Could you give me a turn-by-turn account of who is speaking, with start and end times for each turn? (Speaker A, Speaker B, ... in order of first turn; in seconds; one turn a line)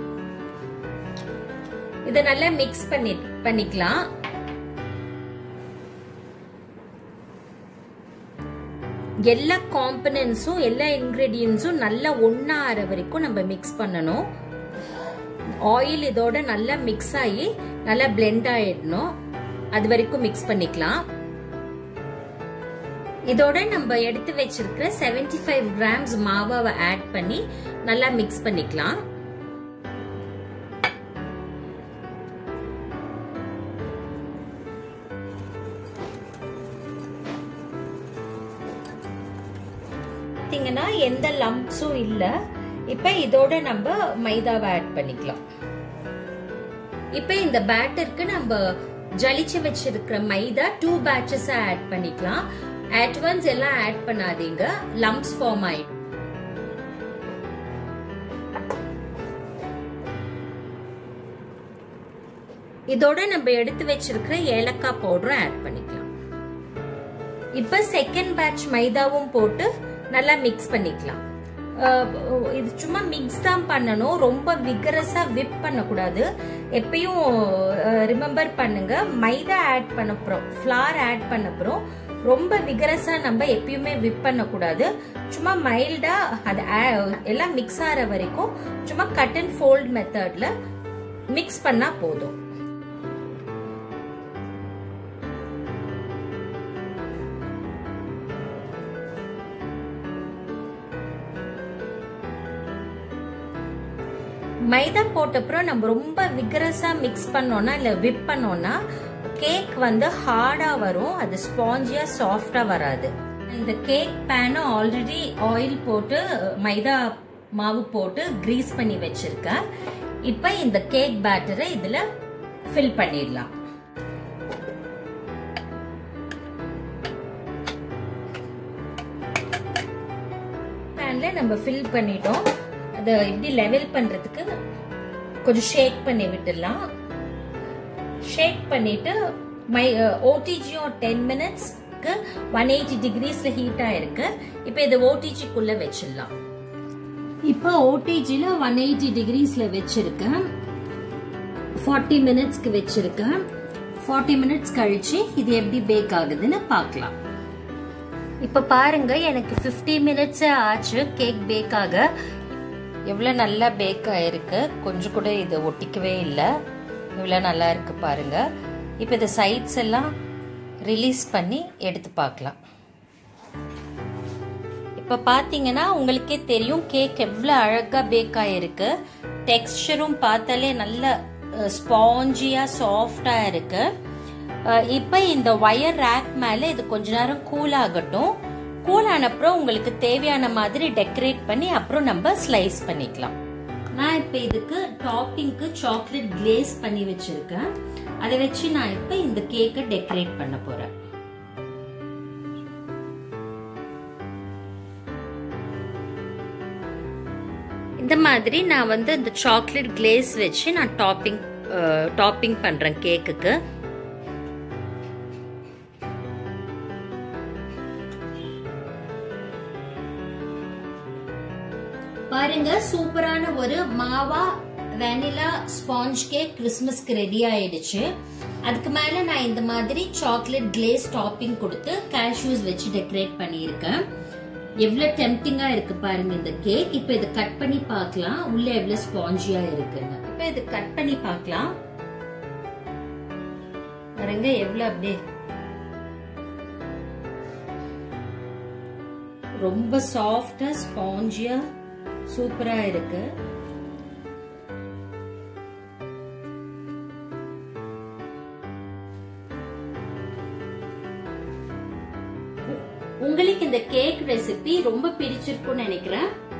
Speaker A: 2.0-4.0
Speaker A: 9.2-14.2
Speaker A: 15.6-19.1
Speaker A: 19.7-21.0
Speaker A: 23.3-29.0
Speaker A: 40.4-42.3
Speaker A: 42.9-45.4
Speaker A: 47.1-55.9
Speaker A: 62.9-66.1
Speaker A: 67.5-71.2
Speaker A: 71.8-90.5
Speaker A: 91.3-92.3
Speaker A: 104.7-119.6
Speaker A: 120.2-122.0
Speaker A: 122.7-123.5
Speaker A: 130.9-134.5
Speaker A: 135.4-136.8
Speaker A: 138.2-146.3
Speaker A: 147.4-150.4
Speaker A: 151.8-153.4
Speaker A: 154.0-157.1
Speaker A: 158.4-162.1
Speaker A: 163.1-166.5
Speaker A: 167.2-168.4
Speaker A: 169.0-170.1
Speaker A: 170.8-172.6
Speaker A: 175.0-178.9
Speaker A: 179.4-183.9
Speaker A: 184.7-193.3
Speaker A: 193.9-197.7
Speaker A: 198.2-200.9
Speaker A: 208.0-213.6
Speaker A: 222.3-228.1
Speaker A: 228.6-234.0
Speaker A: 234.8-241.7
Speaker A: 244.2-245.2
Speaker A: 249.6-251.6
Speaker A: 252.3-253.3
Speaker A: 262.7-266.3